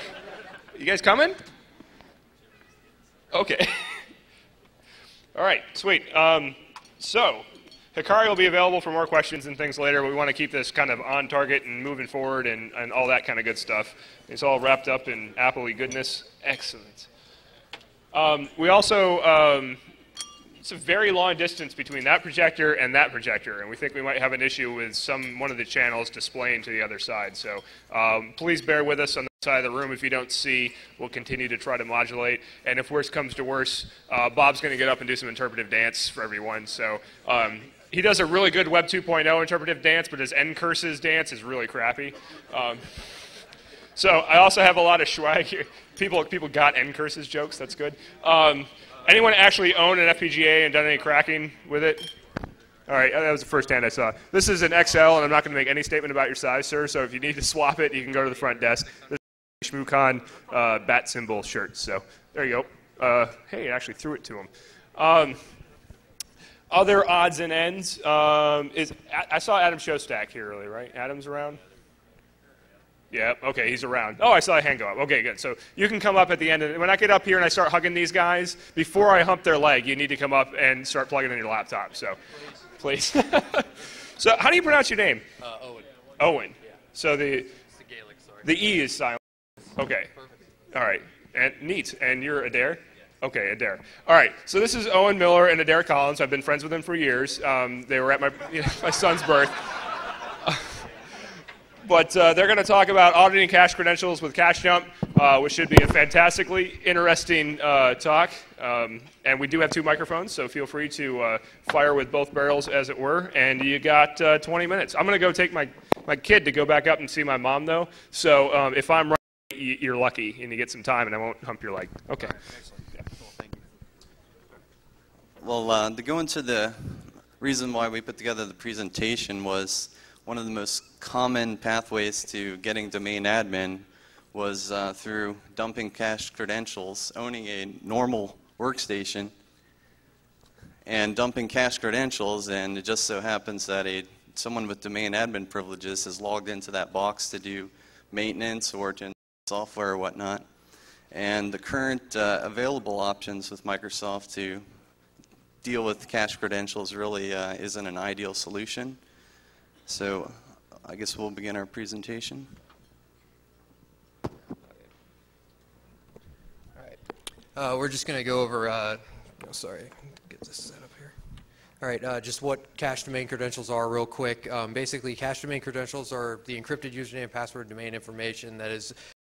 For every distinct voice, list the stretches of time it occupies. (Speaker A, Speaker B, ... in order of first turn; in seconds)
Speaker A: 0.7-1.4, 3.3-4.0, 5.3-17.1, 18.1-19.8, 20.6-43.0, 44.0-52.1, 52.9-65.4, 66.7-71.6, 73.1-82.2, 82.8-85.2, 86.2-87.5, 88.4-89.2, 89.8-90.1, 90.7-100.8, 101.8-122.4
Speaker B: 85.4-85.9, 87.7-88.5, 167.5-171.2, 171.8-178.9
Speaker C: 125.4-139.3, 140.8-150.5, 151.1-154.7, 155.6-159.0, 159.8-162.6